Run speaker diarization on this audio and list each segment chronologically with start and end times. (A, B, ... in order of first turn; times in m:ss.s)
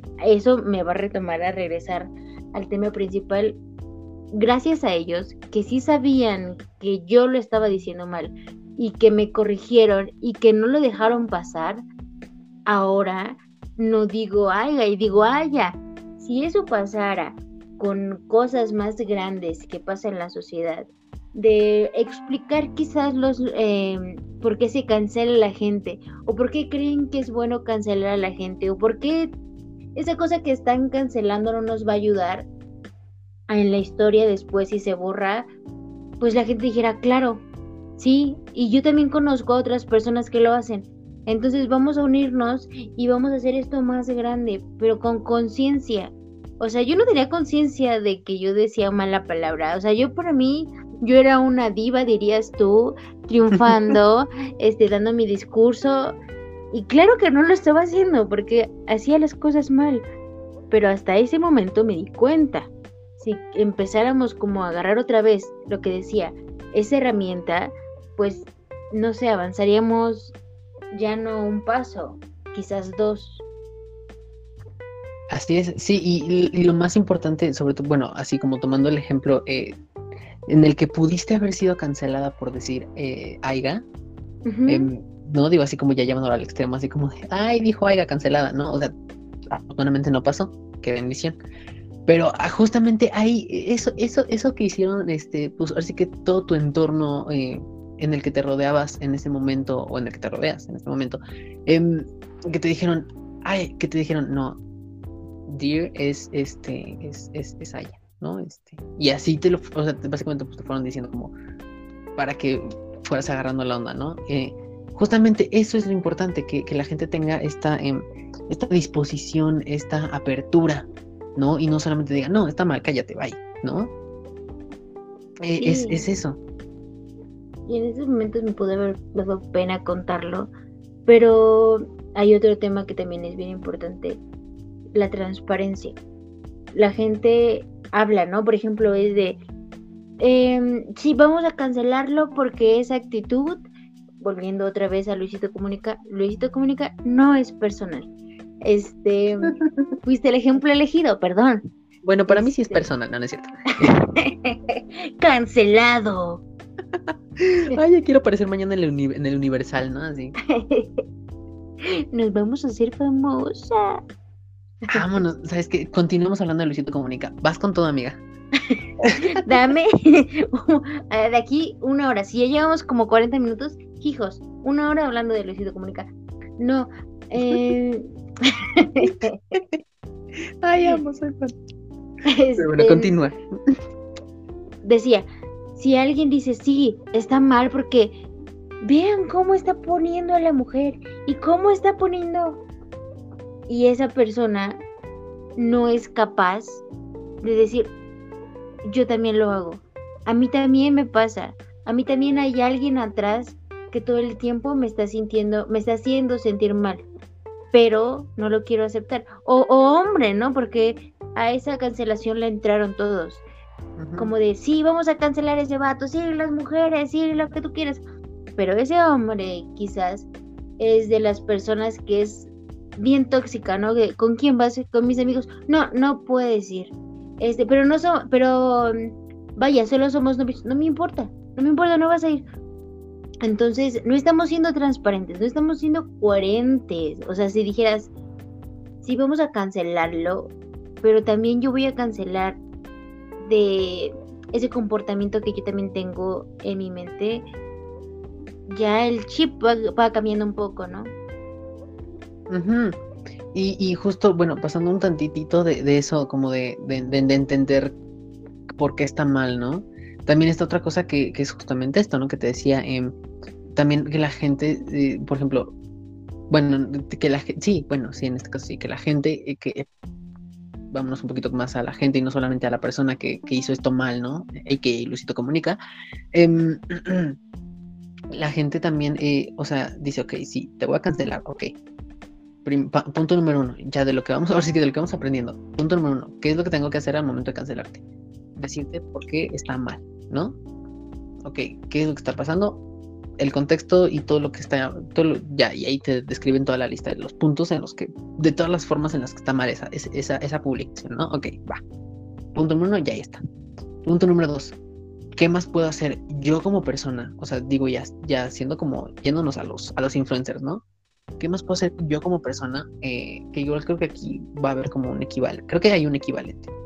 0:00.2-0:03.6 A
0:04.3-0:11.8 A
0:12.7-0:29.3 A
0:30.0-0:32.5 A
0:33.5-0:35.5 A
0:36.2-0:37.4 A
0:38.0-0:56.2 A
0:56.7-1:00.0 A
1:00.7-1:10.3 A
1:10.9-1:13.4 A
1:15.3-1:19.8 B
1:20.5-1:23.8 B
1:24.4-1:24.9 A
1:24.7-1:28.9 B
1:29.5-1:31.4 B
1:32.0-1:44.6 B
1:45.5-1:51.3 B
1:52.2-2:03.9 B
2:05.4-2:06.4 B
2:05.6-2:06.0 A
2:07.6-2:10.5 A
2:11.0-2:14.2 A
2:14.9-2:16.0 A
2:16.7-2:19.4 A
2:20.2-2:23.6 A
2:24.2-2:28.1 A
2:28.6-2:29.5 A
2:29.4-2:29.9 B
2:30.0-2:31.6 A
2:32.0-2:34.2 B
2:32.3-2:32.8 A
2:34.2-2:36.4 A
2:37.4-2:40.4 B
2:40.4-2:41.0 A
2:41.8-2:44.0 A
2:44.9-2:45.2 A
2:44.9-2:48.2 B
2:48.6-2:59.4 A
2:49.0-2:49.3 B
2:59.0-2:59.8 B
3:00.6-3:01.5 B
3:02.2-3:03.1 A
3:02.6-3:03.4 B
3:04.8-3:08.2 A
3:08.8-3:12.6 A
3:13.7-3:14.8 A
3:15.6-3:16.8 A
3:17.4-3:17.9 A
3:18.8-3:27.0 A
3:27.7-3:33.4 A
3:34.0-3:34.3 B
3:34.2-3:38.0 A
3:38.6-3:52.4 A
3:53.4-3:58.1 A
3:59.0-4:02.6 A
4:03.4-4:07.4 A
4:08.7-4:11.1 A
4:12.5-4:13.0 B
4:13.5-4:17.9 B
4:18.8-4:23.1 B
4:23.7-4:25.7 B
4:26.5-4:29.9 B
4:30.9-4:35.8 B
4:36.3-4:37.4 B
4:38.3-4:41.7 B
4:42.6-4:48.0 B
4:48.6-4:50.6 B
4:51.4-4:52.8 B
4:53.4-5:01.8 B
5:02.5-5:03.4 B
5:04.0-5:04.8 B
5:05.4-5:10.8 B
5:11.4-5:16.7 B